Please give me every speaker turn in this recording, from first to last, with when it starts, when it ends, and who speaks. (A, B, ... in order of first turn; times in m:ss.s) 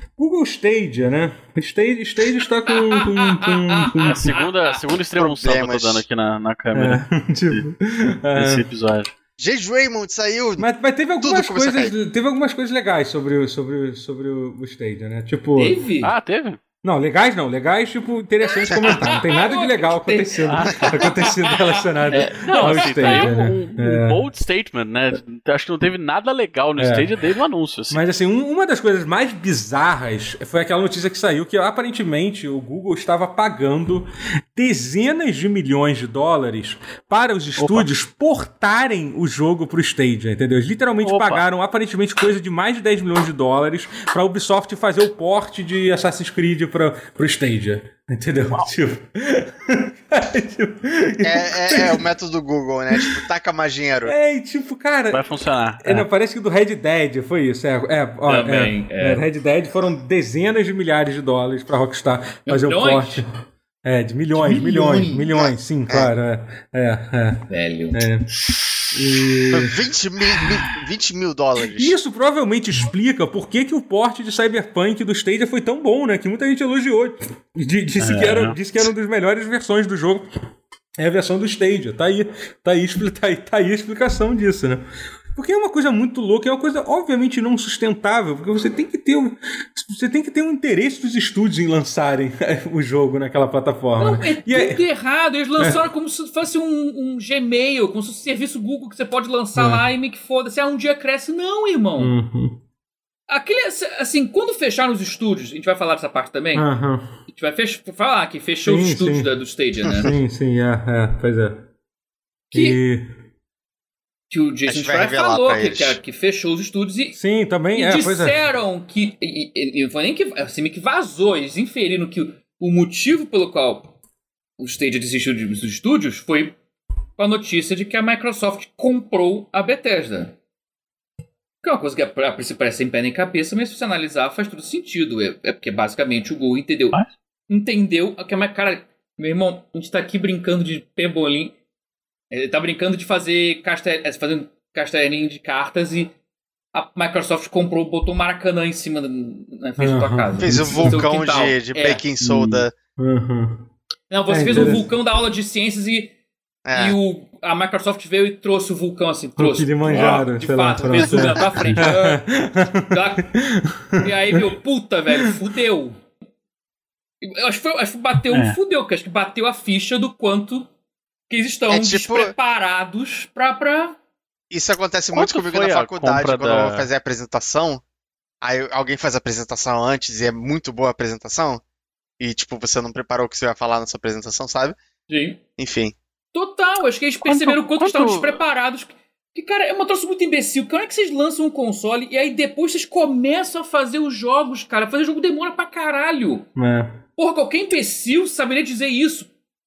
0:00.2-0:04.4 A
0:02.7-0:04.5 B
0:04.0-0:07.6 C
0:05.2-0:06.0 D
0:06.7-0:08.7 A
0:08.4-0:09.1 C
0:09.4-0:10.7 D
0:10.6-0:15.8 A
0:11.2-0:11.9 D
0:15.6-0:16.1 B
0:16.0-0:16.6 C
0:16.8-0:24.2 A
0:18.7-0:19.1 D
0:18.8-0:23.3 B
0:20.5-0:20.9 C
0:22.1-0:28.0 C
0:26.8-0:27.1 A
0:27.9-0:52.1 A
0:37.6-0:37.9 C
0:41.0-0:41.4 C
0:51.2-0:54.2 D
0:52.9-0:53.2 A
0:54.0-0:55.3 A
0:55.1-0:56.1 C
0:55.8-1:03.3 A
0:58.3-0:59.2 B
1:02.5-1:03.2 B
1:03.8-1:08.3 A
1:04.4-1:05.3 B
1:05.3-1:06.1 D
1:07.5-1:08.1 B
1:08.9-1:09.8 A
1:09.5-1:11.9 D
1:11.7-1:20.3 A
1:18.0-1:18.6 C
1:21.0-1:24.8 A
1:25.3-1:34.8 A
1:34.0-1:42.1 B
1:39.6-1:39.8 A
1:42.0-1:42.6 A
1:43.3-1:46.7 B
1:46.5-1:47.1 A
1:47.3-1:50.1 B
1:48.7-1:49.3 A
1:50.0-1:51.7 A
1:52.5-1:52.8 B
1:52.5-1:53.1 A
1:54.3-1:57.2 B
1:54.7-1:56.0 D
1:57.2-1:58.4 A
1:57.7-2:03.9 B
2:04.6-2:06.6 B
2:07.2-2:10.4 B
2:11.6-2:21.5 B
2:22.3-2:26.1 B
2:26.7-2:32.0 B
2:29.8-2:31.0 A
2:30.4-2:32.7 D
2:32.2-2:32.7 C
2:33.0-2:33.7 A
2:34.1-2:36.1 B
2:34.3-2:34.9 A
2:36.6-2:37.0 D
2:36.7-2:42.2 B
2:39.4-2:44.4 A
2:41.6-2:41.9 C
2:42.9-2:43.3 B
2:44.0-2:46.0 B
2:47.2-2:50.7 B
2:48.3-2:48.6 C
2:51.3-2:54.0 B
2:51.7-2:52.4 D
2:54.5-2:57.8 D
2:55.1-2:56.9 C
2:58.4-3:01.6 D
3:02.2-3:04.8 D
3:05.1-3:05.4 B
3:05.6-3:06.0 D
3:06.3-3:16.5 B
3:07.2-3:08.4 C
3:16.6-3:17.0 A
3:17.2-3:19.3 B